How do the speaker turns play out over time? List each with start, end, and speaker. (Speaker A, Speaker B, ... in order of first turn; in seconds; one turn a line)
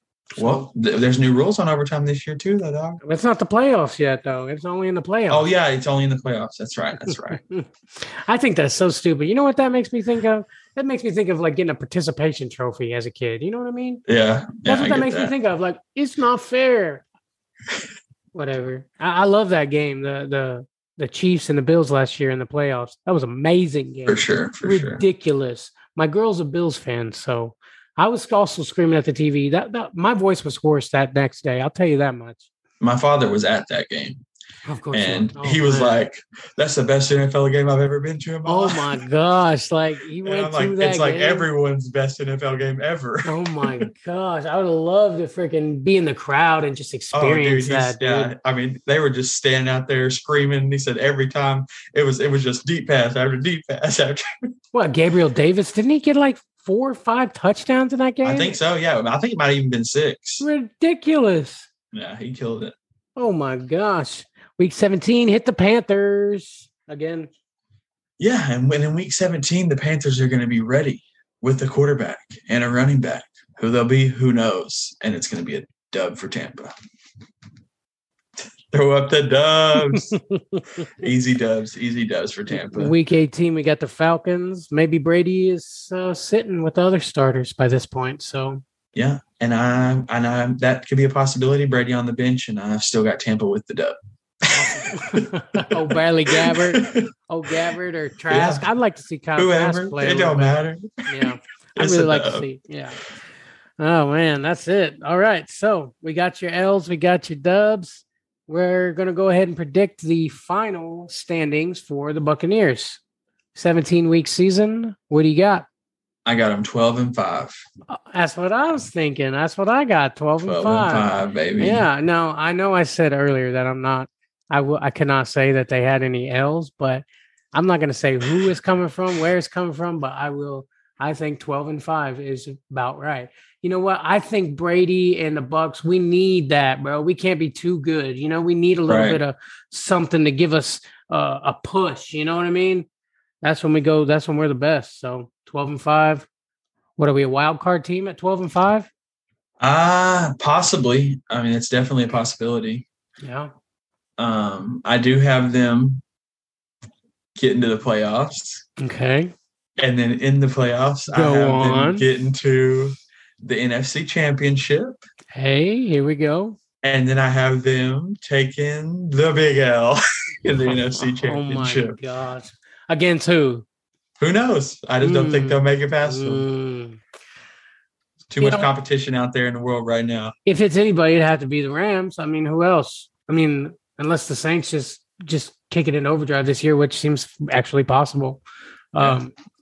Speaker A: 0.4-3.0
Speaker B: 0.4-0.6
Speaker B: 3.0-5.4
Speaker A: 5.3-7.4
Speaker B: 7.0-14.0
Speaker A: 14.1-15.3
Speaker B: 14.6-17.0
Speaker B: 18.3-32.5
Speaker A: 24.1-25.0
Speaker A: 32.8-34.2
Speaker B: 34.7-36.0
Speaker A: 34.9-38.9
Speaker B: 38.5-41.5
Speaker A: 40.2-43.9
Speaker B: 43.2-48.3
Speaker A: 47.1-54.2
Speaker B: 54.7-58.5
Speaker A: 58.2-60.4
Speaker B: 60.4-61.7
Speaker A: 61.9-62.7
Speaker B: 63.1-67.3
Speaker A: 68.2-76.7
Speaker A: 78.7-80.2
Speaker B: 79.9-80.8
Speaker A: 81.0-82.9
Speaker B: 82.5-88.6
Speaker A: 88.9-94.0
Speaker A: 94.5-97.1
Speaker B: 94.5-103.0
Speaker A: 98.3-98.6
Speaker A: 99.3-102.5
Speaker B: 103.8-113.0
Speaker B: 113.5-115.7
Speaker A: 116.2-117.6
Speaker B: 117.9-142.9
Speaker A: 120.4-121.8
Speaker A: 138.9-139.2
Speaker B: 143.4-146.3
Speaker B: 147.0-148.9
Speaker A: 149.6-152.8
Speaker B: 153.2-153.5
Speaker A: 154.2-156.0
Speaker A: 157.3-158.6
Speaker B: 158.8-159.3
Speaker A: 159.8-165.0
Speaker B: 161.1-162.0
Speaker B: 165.3-166.6
Speaker A: 166.8-172.0
Speaker B: 170.7-173.7
Speaker A: 174.2-176.4
Speaker B: 175.0-177.0
Speaker A: 178.3-180.3
Speaker B: 178.4-178.7
Speaker B: 180.4-188.4
Speaker B: 188.9-189.3